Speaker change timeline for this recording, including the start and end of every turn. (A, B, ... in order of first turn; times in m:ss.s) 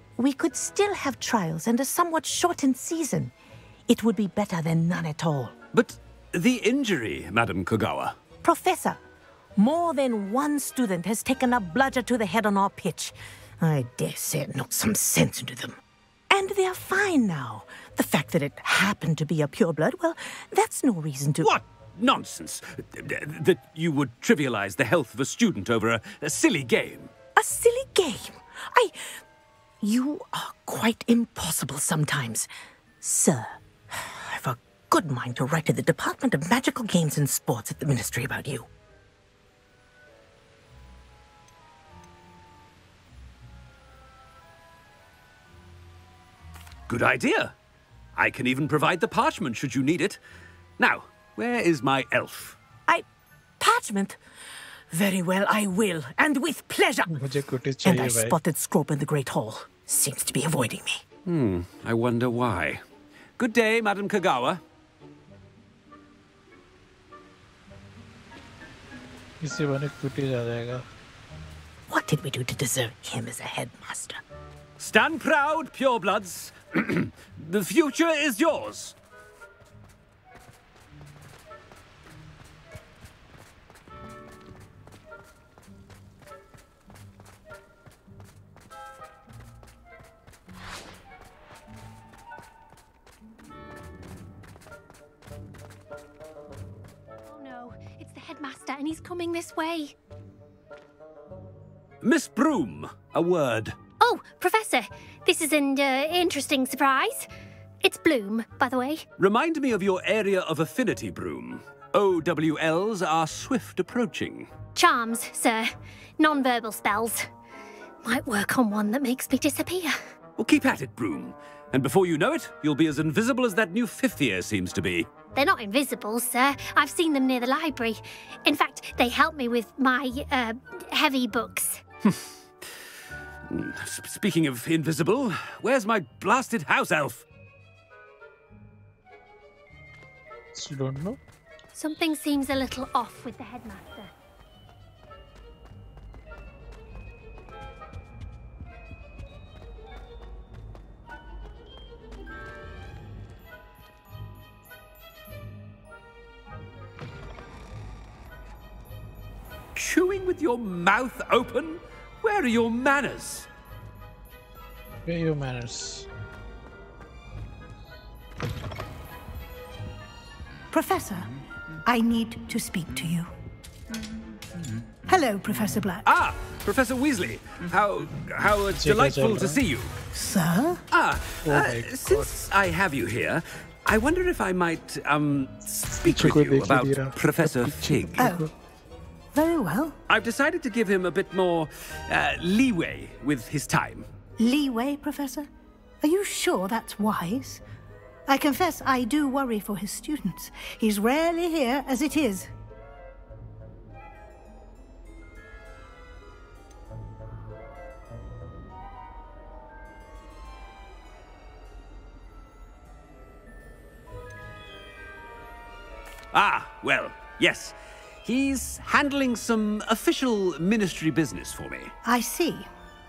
0:00.2-0:03.3 A
0:03.9-0:05.5 A
0:05.7-0:08.2 B
0:08.4-0:09.0 A
0:09.6-0:15.8 A
0:16.3-0:21.6 A
0:21.4-0:27.1 B
0:27.4-0:28.9 A
0:29.8-0:32.5 A
0:33.0-0:38.7 A
0:46.9-0:47.5 B
0:48.2-0:50.2 B
0:50.8-0:52.6 B
0:53.6-0:54.2 A
0:54.9-0:57.1 A
0:57.1-0:58.4 C
0:57.8-1:01.0 A
1:01.2-1:02.8 B
1:03.4-1:04.6 B
1:09.4-1:10.8 C
1:11.9-1:14.2 A
1:14.8-1:18.9 B
1:37.2-1:39.9 D
1:42.0-1:43.8 B
1:44.0-1:47.3 D
1:47.8-1:49.0 D
1:49.2-1:54.5 B
1:54.7-1:57.3 D
1:58.0-2:00.0 D
2:00.4-2:05.1 B
2:05.3-2:11.8 D
2:13.5-2:17.2 B
2:20.5-2:21.2 C
2:21.7-2:24.1 D
2:39.8-2:43.5 B
2:45.0-2:46.1 C
2:50.7-2:51.3 E
2:51.8-2:53.3 E
2:55.0-2:56.0 E
2:56.0-2:59.9 B
2:58.8-2:59.6 C
3:00.1-3:00.8 E
3:00.9-3:08.3 B
3:01.4-3:02.4 C
3:05.9-3:08.5 C
3:08.2-3:08.4 E
3:09.3-3:10.0 E
3:10.1-3:14.1 B
3:14.4-3:15.5 E
3:16.0-3:17.6 E
3:18.3-3:22.5 E
3:36.3-3:41.9 B
3:42.0-3:42.7 E